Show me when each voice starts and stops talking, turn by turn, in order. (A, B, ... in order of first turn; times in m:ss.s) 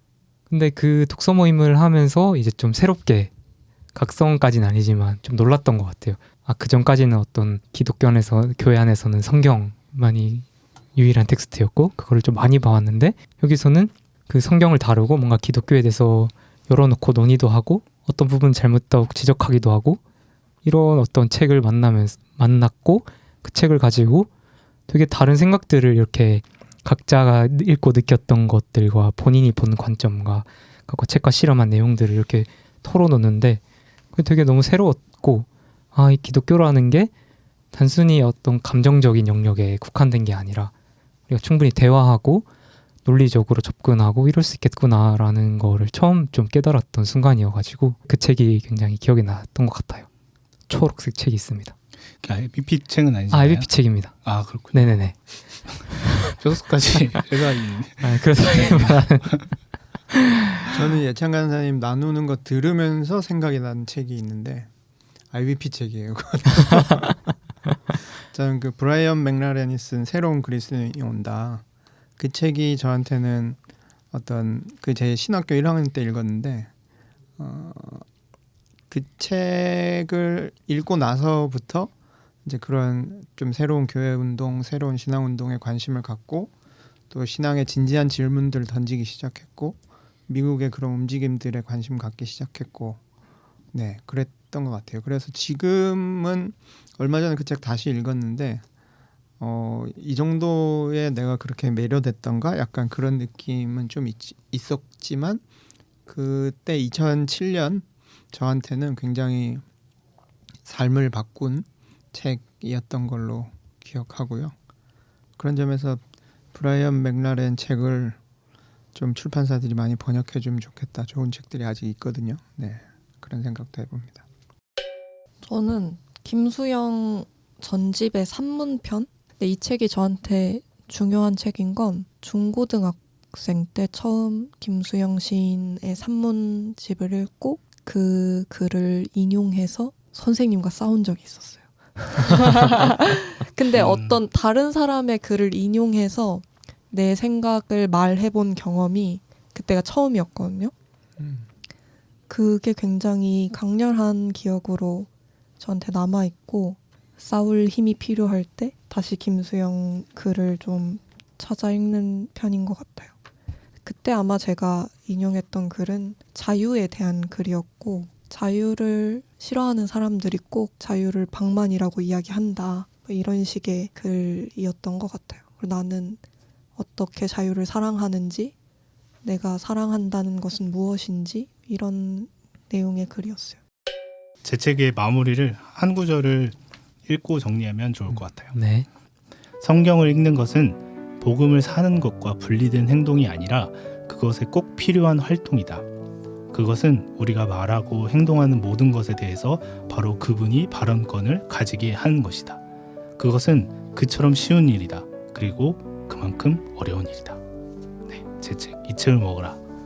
0:00.5-0:03.3 A
0:04.0-0:20.0 A
0:20.6-0:24.3 A
0:24.9-0:33.6 A
0:34.1-0:37.1 A
0:37.7-0:40.7 A
0:41.3-0:42.5 A
0:43.0-0:50.1 A
0:50.7-0:51.8 A
0:52.2-0:55.0 B
0:53.3-0:56.3 A
0:55.7-0:59.3 B
0:58.0-0:59.6 A
1:00.1-1:00.7 A
1:00.7-1:04.7 C
1:05.3-1:07.2 C
1:08.2-1:11.6 C
1:12.2-1:13.6 C
1:14.1-1:16.7 C
1:17.4-1:18.0 C
1:18.9-1:21.9 C
1:22.4-1:26.5 C
1:27.1-1:33.0 C
1:33.7-1:38.6 C
1:39.4-1:45.4 C
1:46.1-1:49.6 C
1:50.6-1:54.6 C
1:55.4-1:56.0 C
1:56.5-1:58.2 C
1:59.0-2:04.2 C
2:05.4-2:30.7 D
2:23.7-2:24.2 B
2:31.2-2:31.5 C
2:32.3-2:35.1 D
2:35.6-2:43.1 D
2:43.8-2:56.2 D
2:56.8-2:58.5 D
2:59.2-3:03.6 D
3:04.4-3:08.6 B
3:08.5-3:08.9 A
3:09.6-3:15.9 B
3:16.5-3:22.6 B
3:23.2-3:27.4 B
3:28.0-3:29.6 B